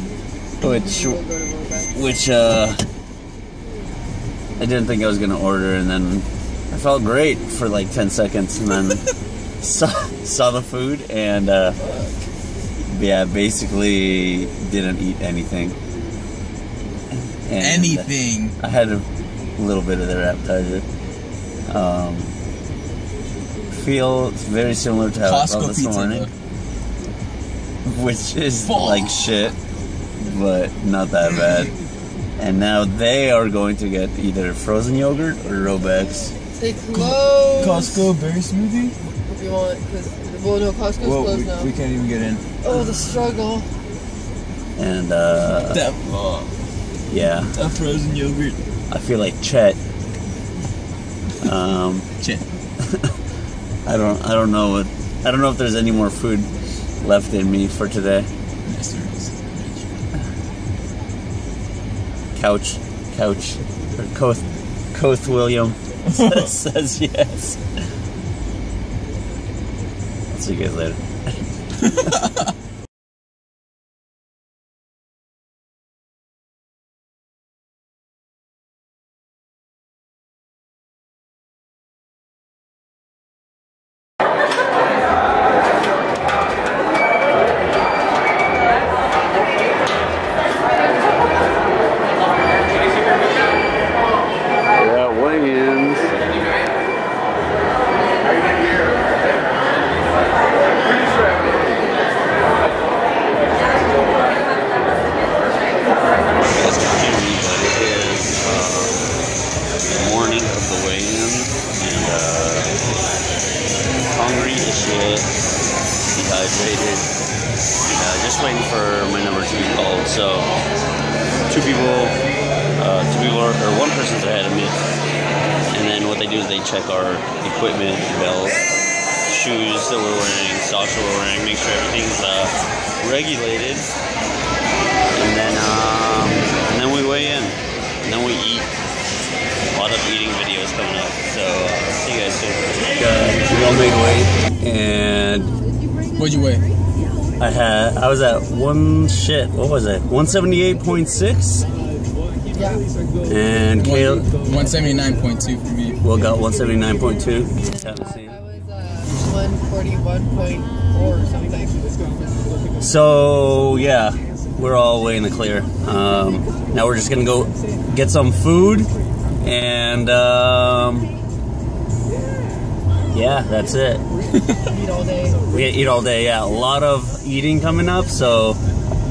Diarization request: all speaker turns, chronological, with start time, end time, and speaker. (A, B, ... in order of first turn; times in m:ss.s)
0:00.6-0:01.2 A
0:00.6-0:01.9 B
0:01.9-0:02.8 A
0:04.6-0:09.0 A
0:09.6-0:11.8 A
0:12.9-0:15.8 A
0:17.1-0:20.9 A
0:17.6-0:18.6 C
0:21.7-0:22.3 A
0:23.7-0:26.3 A
0:25.2-0:26.3 C
0:27.8-0:29.6 A
0:28.6-0:29.1 C
0:30.2-0:31.7 A
0:32.4-0:36.3 A
0:36.6-0:38.1 B
0:36.9-0:39.0 C
0:39.3-0:41.7 B
0:41.0-0:42.4 C
0:42.6-0:43.7 B
0:44.8-0:45.9 A
0:45.7-0:46.5 C
0:47.1-0:47.5 A
0:47.5-0:48.6 C
0:48.9-0:49.8 A
0:51.4-0:52.1 A
0:52.8-0:53.1 A
0:53.8-0:58.3 A
0:58.7-1:00.0 C
1:02.3-1:07.6 A
1:10.3-1:11.0 A
1:11.8-1:12.1 A
1:34.8-1:36.2 A
1:46.5-1:49.0 A
1:49.8-1:52.8 A
1:54.1-1:55.3 A
1:56.1-1:57.1 A
1:57.9-2:00.5 A
2:01.5-2:02.2 A
2:02.8-2:04.8 A
2:05.7-2:08.6 A
2:09.2-2:13.9 A
2:15.1-2:18.7 A
2:19.7-2:25.6 A
2:26.2-2:26.6 C
2:27.4-2:31.6 A
2:32.5-2:32.8 B
2:33.2-2:34.3 A
2:33.8-2:36.0 C
2:36.0-2:38.4 A
2:37.6-2:41.9 B
2:42.8-2:51.1 A
2:53.1-2:54.0 A
2:54.6-2:55.4 B
2:55.5-2:58.6 A